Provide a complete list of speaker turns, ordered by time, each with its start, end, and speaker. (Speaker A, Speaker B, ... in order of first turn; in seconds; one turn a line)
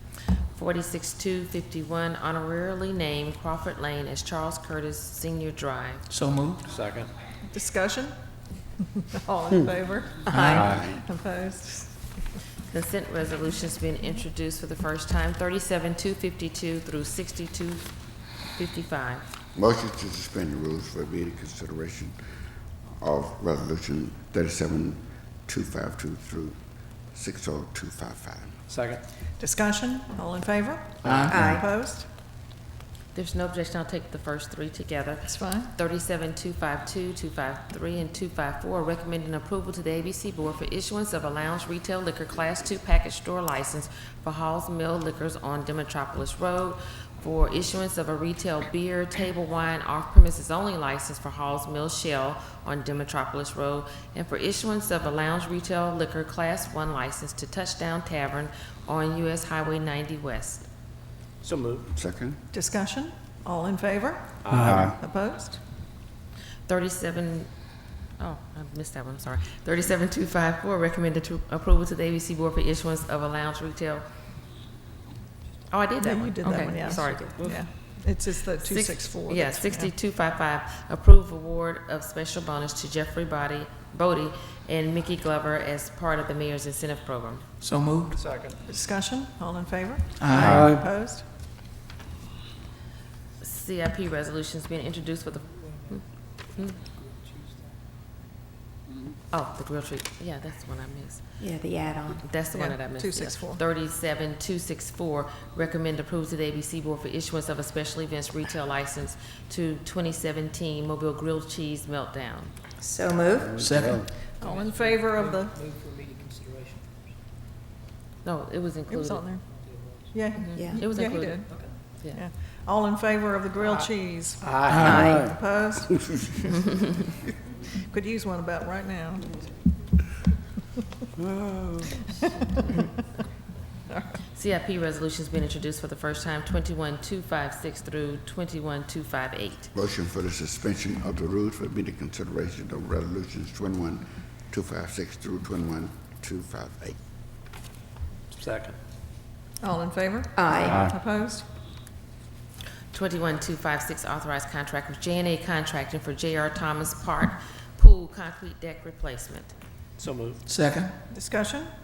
Speaker A: 0.6-6.0
Speaker B: 6.1-6.6
Speaker C: 6.7-7.1
Speaker D: 7.5-8.1
Speaker D: 9.1-12.0
Speaker E: 10.2-10.8
Speaker C: 10.5-10.8
Speaker F: 10.6-11.0
Speaker A: 12.7-17.9
Speaker A: 18.5-19.2
Speaker F: 19.5-22.2
Speaker F: 23.0-26.6
Speaker F: 27.1-28.6
Speaker C: 28.7-29.0
Speaker D: 29.4-32.1
Speaker B: 31.0-31.4
Speaker E: 31.3-31.6
Speaker A: 33.1-60.6
Speaker D: 35.3-35.7
Speaker C: 61.4-61.9
Speaker F: 61.9-62.4
Speaker D: 62.5-65.6
Speaker C: 64.4-64.9
Speaker F: 64.5-65.0
Speaker A: 66.7-67.5
Speaker A: 68.2-74.1
Speaker A: 75.7-77.5
Speaker D: 76.0-79.9
Speaker A: 78.5-87.5
Speaker B: 87.6-88.2
Speaker C: 88.1-88.6
Speaker D: 88.7-91.3
Speaker B: 90.2-90.8
Speaker A: 93.4-96.0
Speaker A: 99.3-101.2
Speaker E: 101.4-102.3
Speaker A: 102.1-112.5
Speaker D: 102.5-103.6
Speaker E: 112.8-113.6
Speaker F: 113.4-114.1
Speaker B: 113.6-114.0
Speaker D: 114.4-115.6
Speaker C: 115.1-116.7
Speaker A: 118.2-119.2
Speaker D: 118.9-119.5
Speaker D: 120.1-126.1
Speaker A: 120.4-122.2
Speaker E: 120.5-120.9
Speaker C: 124.4-124.9
Speaker B: 124.7-125.2
Speaker E: 124.8-125.3
Speaker F: 125.0-125.3
Speaker D: 127.8-129.5
Speaker A: 134.3-139.7
Speaker F: 139.7-147.0
Speaker C: 148.3-148.8
Speaker D: 149.6-151.5
Speaker E: 150.4-150.9
Speaker A: 152.9-159.5
Speaker C: 160.0-160.4
Speaker B: 160.5-160.9
Speaker D: 161.1-161.7